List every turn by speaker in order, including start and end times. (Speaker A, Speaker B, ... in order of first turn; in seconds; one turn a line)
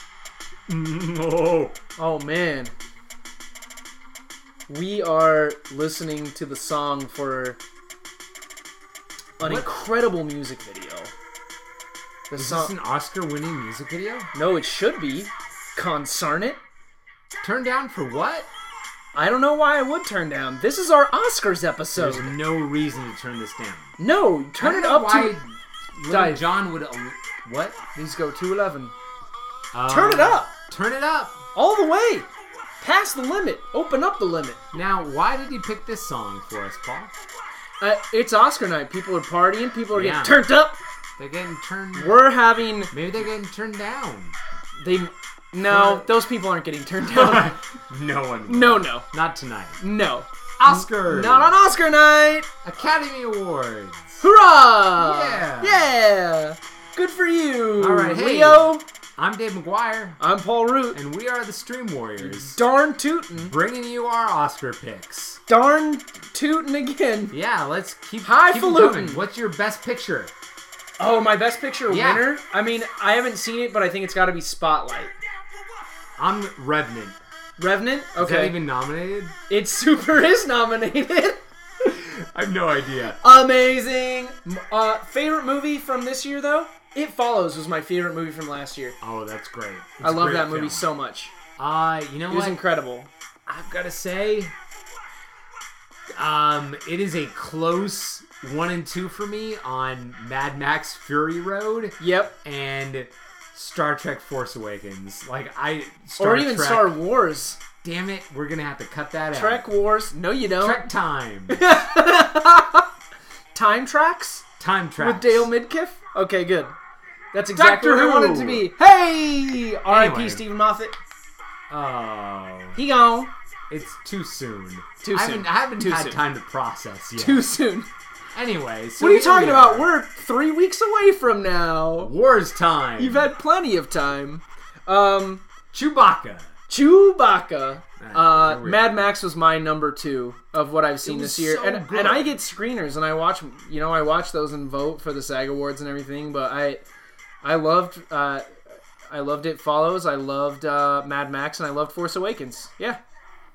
Speaker A: 0.7-1.8
Speaker B: 2.0-2.7
Speaker B: 4.7-7.6
Speaker B: 9.4-11.1
Speaker A: 9.4-9.7
Speaker B: 12.3-12.7
Speaker A: 12.4-14.3
Speaker B: 14.3-16.6
Speaker A: 17.4-18.5
Speaker B: 19.1-22.4
Speaker A: 21.9-23.9
Speaker B: 24.0-25.4
Speaker A: 24.6-27.8
Speaker B: 26.1-26.5
Speaker B: 27.9-28.9
Speaker A: 29.7-31.4
Speaker B: 29.9-30.5
Speaker B: 31.6-32.3
Speaker B: 32.8-34.6
Speaker A: 34.7-37.1
Speaker B: 37.8-40.8
Speaker A: 39.9-40.4
Speaker A: 41.2-42.3
Speaker B: 42.0-42.9
Speaker A: 42.9-44.4
Speaker B: 44.8-47.6
Speaker A: 45.6-46.1
Speaker A: 47.0-49.8
Speaker B: 48.5-49.1
Speaker B: 49.8-52.5
Speaker A: 50.6-51.5
Speaker A: 52.6-54.2
Speaker B: 54.2-58.8
Speaker A: 55.0-55.9
Speaker A: 57.8-60.2
Speaker B: 60.2-61.0
Speaker A: 60.9-62.6
Speaker B: 62.2-63.5
Speaker A: 63.4-65.4
Speaker B: 65.5-67.3
Speaker A: 67.3-70.3
Speaker B: 68.2-69.2
Speaker B: 71.0-75.2
Speaker A: 71.9-72.3
Speaker A: 76.2-77.2
Speaker B: 77.6-78.6
Speaker A: 78.2-79.3
Speaker B: 79.5-81.4
Speaker A: 81.8-83.2
Speaker B: 83.2-89.0
Speaker A: 89.0-90.9
Speaker B: 90.0-91.3
Speaker A: 91.6-92.6
Speaker B: 92.3-93.1
Speaker A: 93.5-94.5
Speaker A: 96.2-107.0
Speaker B: 102.0-102.3
Speaker B: 106.2-107.6
Speaker A: 107.8-109.7
Speaker B: 109.3-110.9
Speaker A: 110.6-111.7
Speaker B: 111.5-112.9
Speaker B: 113.5-116.8
Speaker A: 114.6-115.5
Speaker B: 117.3-121.0
Speaker A: 117.5-118.7
Speaker A: 119.9-120.5
Speaker A: 121.7-122.8
Speaker B: 122.8-123.3
Speaker A: 123.7-127.5
Speaker B: 125.0-126.2
Speaker B: 127.2-127.9
Speaker A: 128.3-129.9
Speaker B: 129.0-132.1
Speaker A: 132.0-133.3
Speaker B: 133.0-135.4
Speaker A: 135.7-136.5
Speaker B: 136.7-146.8
Speaker A: 138.0-139.0
Speaker A: 141.0-142.4
Speaker B: 147.4-153.0